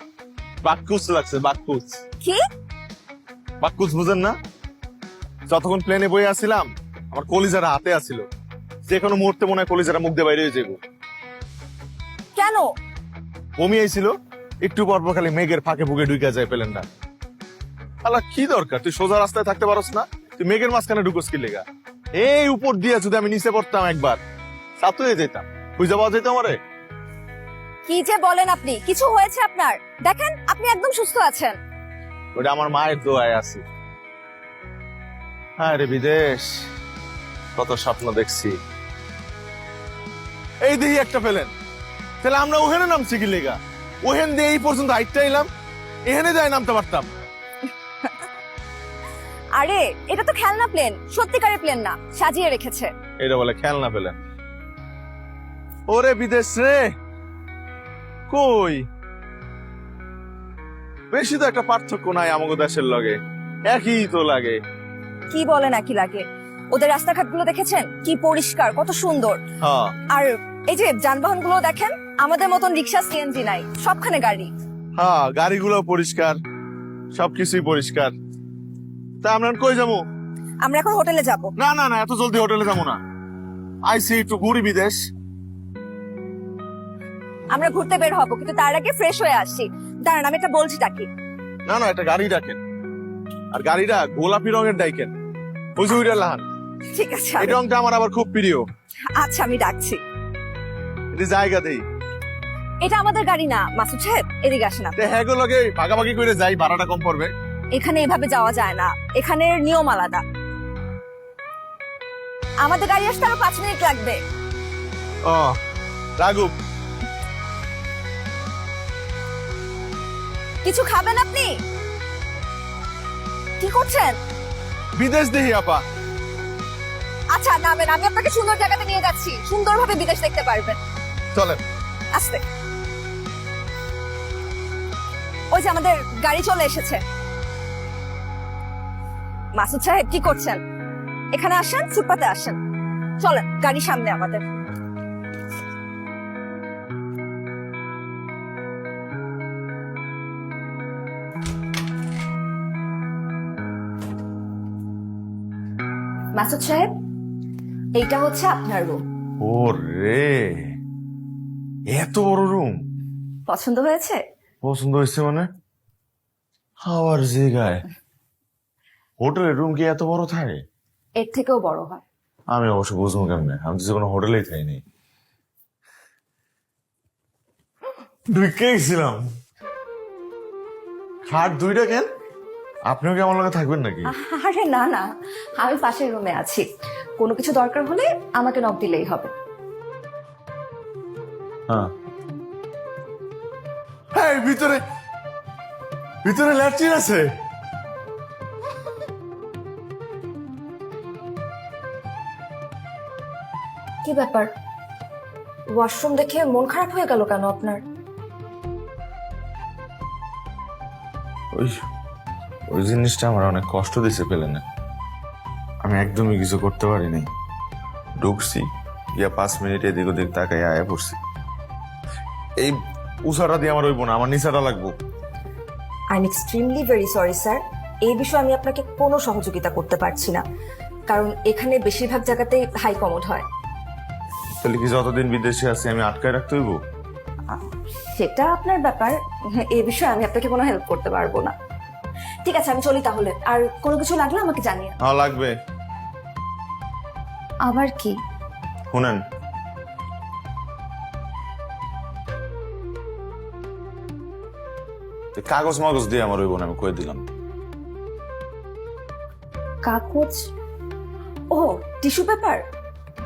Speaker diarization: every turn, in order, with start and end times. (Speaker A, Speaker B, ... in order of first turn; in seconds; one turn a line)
Speaker A: 0.6-2.0
Speaker A: 3.6-4.4
Speaker A: 5.5-8.3
Speaker A: 8.9-10.8
Speaker B: 12.4-12.7
Speaker A: 13.6-16.9
Speaker A: 18.0-24.2
Speaker A: 24.8-26.6
Speaker B: 27.9-31.6
Speaker A: 32.4-33.6
Speaker A: 35.6-36.6
Speaker A: 37.6-38.6
Speaker A: 40.6-41.5
Speaker A: 42.2-45.5
Speaker A: 46.1-47.1
Speaker B: 49.6-52.9
Speaker A: 53.2-54.2
Speaker A: 55.9-56.9
Speaker A: 58.3-58.9
Speaker A: 61.1-64.6
Speaker B: 65.3-69.4
Speaker A: 69.6-70.0
Speaker B: 70.1-74.5
Speaker A: 75.0-76.4
Speaker A: 77.2-78.1
Speaker A: 79.2-80.0
Speaker B: 80.6-81.5
Speaker A: 81.6-83.0
Speaker A: 83.9-85.0
Speaker B: 87.5-91.1
Speaker A: 91.7-92.6
Speaker A: 93.5-95.1
Speaker A: 95.8-96.5
Speaker B: 96.9-97.6
Speaker A: 97.4-98.7
Speaker B: 99.2-100.0
Speaker A: 101.1-101.8
Speaker B: 102.8-105.0
Speaker A: 105.0-107.3
Speaker B: 107.7-110.2
Speaker B: 112.6-114.2
Speaker A: 115.2-115.6
Speaker A: 116.2-116.5
Speaker B: 120.6-121.6
Speaker B: 123.6-124.2
Speaker A: 125.0-125.8
Speaker B: 127.3-130.8
Speaker A: 131.3-131.6
Speaker B: 132.1-132.4
Speaker B: 135.5-137.0
Speaker B: 139.6-140.6
Speaker B: 141.3-142.6
Speaker B: 143.2-144.5
Speaker B: 156.4-156.9
Speaker B: 157.9-159.0
Speaker A: 159.4-160.7
Speaker A: 161.9-162.8
Speaker B: 163.5-164.2
Speaker A: 164.6-165.5
Speaker A: 166.8-167.9
Speaker A: 169.2-170.6
Speaker B: 171.2-172.0
Speaker A: 172.5-174.8
Speaker A: 178.3-179.2
Speaker A: 181.3-182.1
Speaker A: 182.9-184.1
Speaker B: 184.1-185.1
Speaker B: 185.6-186.7
Speaker B: 187.2-189.3
Speaker A: 194.2-194.8
Speaker A: 196.2-197.3
Speaker B: 204.0-204.5
Speaker B: 205.7-207.8
Speaker A: 212.7-214.6
Speaker A: 215.8-217.3
Speaker A: 218.2-221.2
Speaker A: 222.6-224.9
Speaker B: 226.1-230.4
Speaker B: 231.1-233.5
Speaker A: 234.6-236.8
Speaker B: 237.5-241.6
Speaker B: 242.4-245.0
Speaker A: 245.0-245.6
Speaker B: 247.7-248.2
Speaker A: 248.9-249.2
Speaker A: 255.4-257.2
Speaker B: 259.9-260.5
Speaker B: 261.5-262.6